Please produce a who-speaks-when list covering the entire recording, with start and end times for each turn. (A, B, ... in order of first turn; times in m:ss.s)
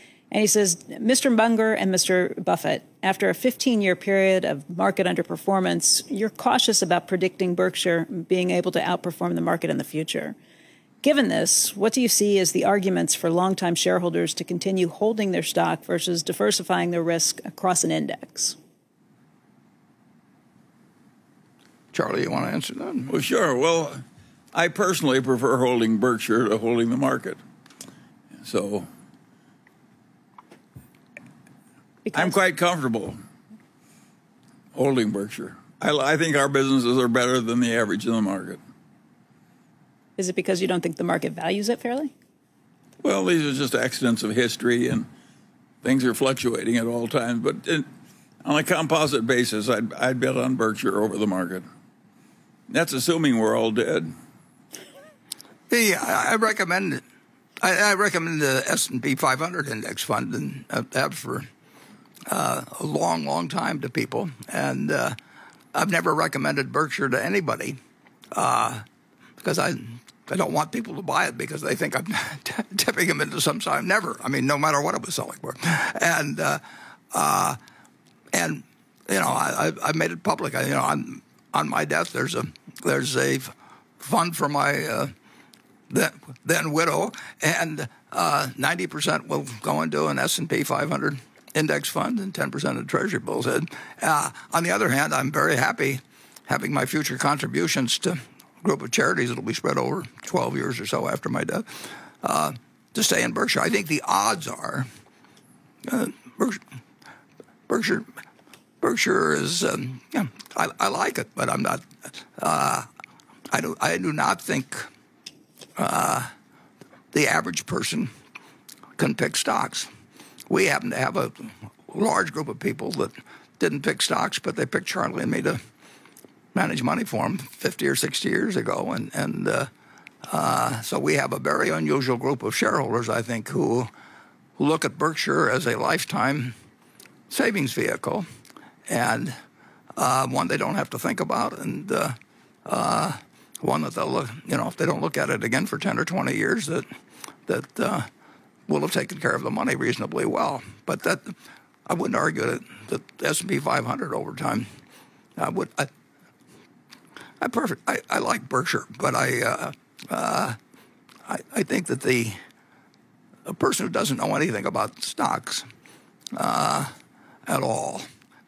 0:00.3-0:10.4 A
0:11.0-0:18.6 A
0:21.9-0:23.1 B
0:23.1-0:24.0 C
0:24.5-0:27.4 C
0:28.4-0:28.9 C
0:32.0-0:32.4 A
0:32.1-0:33.2 C
0:34.7-0:38.6 C
0:40.2-0:42.1 A
0:43.0-0:45.0 C
0:45.8-0:47.8 C
0:48.4-0:51.6 C
0:52.7-0:54.1 C
0:55.7-0:57.0 B
0:57.6-1:01.4 B
1:02.3-1:05.1 B
1:05.7-1:07.8 B
1:08.3-1:08.8 B
1:09.4-1:17.6 B
1:18.3-1:25.1 B
1:25.9-1:44.9 B
1:45.8-1:46.6 B
1:47.7-1:48.1 B
1:48.8-1:52.9 B
1:53.5-1:54.9 B
1:55.8-1:56.3 B
1:57.1-1:58.1 B
1:59.0-1:59.9 B
2:00.5-2:05.6 B
2:06.5-2:09.7 B
2:10.2-2:13.9 B
2:14.6-2:16.5 B
2:17.3-2:18.2 B
2:18.9-2:19.4 B
2:20.0-2:26.8 B
2:27.4-2:28.1 B
2:28.7-2:31.3 B
2:31.9-2:34.6 B
2:35.4-2:35.9 B
2:37.4-2:40.6 B
2:41.2-2:42.4 B
2:43.4-2:45.6 B
2:46.3-2:46.9 B
2:47.4-2:48.0 B